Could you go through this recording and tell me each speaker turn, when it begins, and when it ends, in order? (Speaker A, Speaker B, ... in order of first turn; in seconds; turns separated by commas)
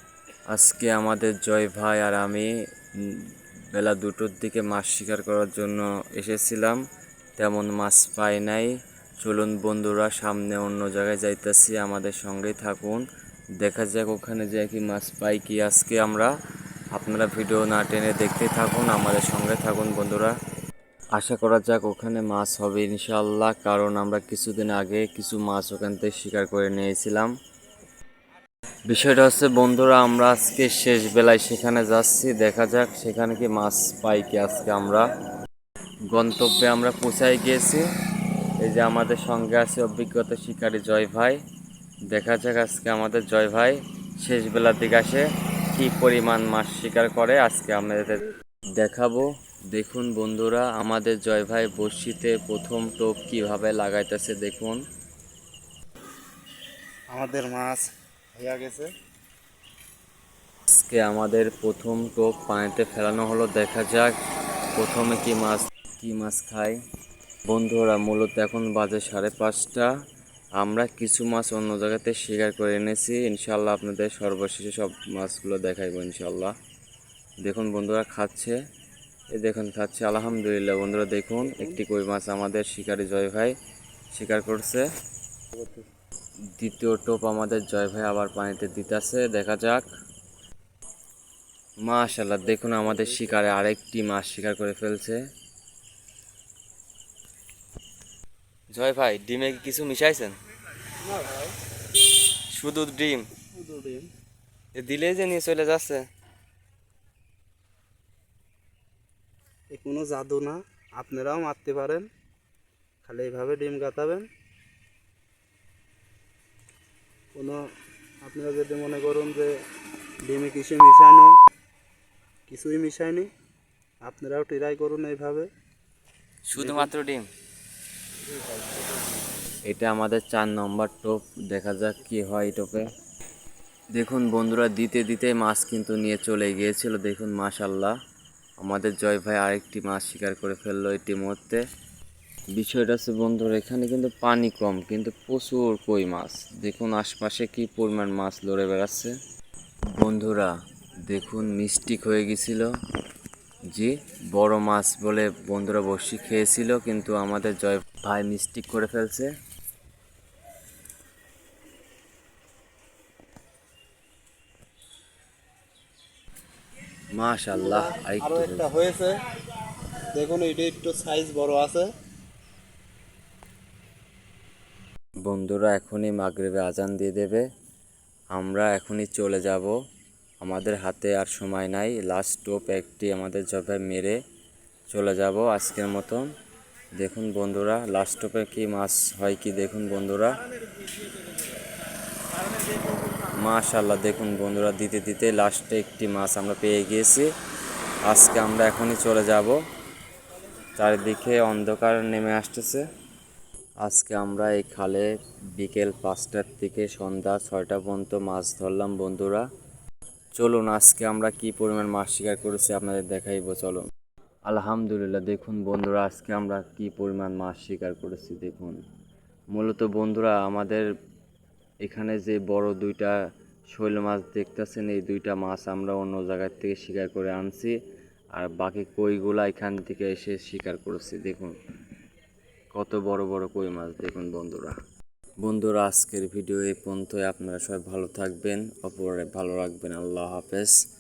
Speaker A: 0.5-2.5, Speaker A: 3.0-6.8, Speaker A: 7.4-13.0, Speaker A: 13.6-16.3, Speaker A: 16.9-20.3, Speaker A: 21.2-27.3, Speaker A: 28.9-35.0, Speaker A: 36.1-37.8, Speaker A: 38.6-41.4, Speaker A: 42.1-54.8, Speaker B: 57.1-58.9, Speaker A: 60.7-64.1, Speaker A: 64.8-66.8, Speaker A: 67.5-69.9, Speaker A: 70.6-76.5, Speaker A: 77.4-78.6, Speaker A: 79.3-83.5, Speaker B: 81.5-81.8, Speaker A: 84.1-84.8, Speaker B: 85.5-85.8, Speaker A: 86.5-89.9, Speaker A: 91.8-95.2, Speaker A: 98.7-100.3, Speaker B: 101.0-101.5, Speaker A: 102.5-103.3, Speaker B: 103.5-104.1, Speaker A: 104.8-106.0, Speaker B: 109.7-112.1, Speaker B: 113.0-114.3, Speaker B: 117.3-117.7, Speaker B: 118.2-119.5, Speaker B: 120.2-121.3, Speaker B: 122.5-123.3, Speaker B: 124.0-125.5, Speaker A: 126.5-127.3, Speaker B: 126.6-126.9, Speaker B: 128.3-129.1, Speaker A: 129.7-132.9, Speaker A: 133.9-137.9, Speaker A: 138.6-141.6, Speaker A: 142.5-149.1, Speaker A: 149.9-150.5, Speaker A: 151.1-152.7, Speaker A: 153.7-159.3, Speaker A: 167.1-168.7, Speaker B: 167.5-169.2, Speaker B: 169.7-171.9, Speaker A: 175.2-177.4, Speaker A: 178.3-179.7, Speaker A: 180.4-184.2, Speaker A: 184.9-186.3, Speaker A: 186.9-190.4, Speaker A: 193.2-197.3, Speaker A: 198.1-199.6, Speaker A: 200.8-202.8, Speaker A: 203.8-209.4, Speaker A: 210.3-213.8, Speaker A: 214.4-218.8, Speaker A: 219.5-220.8, Speaker A: 221.8-223.2, Speaker A: 223.7-227.8, Speaker A: 228.3-231.5, Speaker A: 232.7-234.8, Speaker A: 235.4-240.7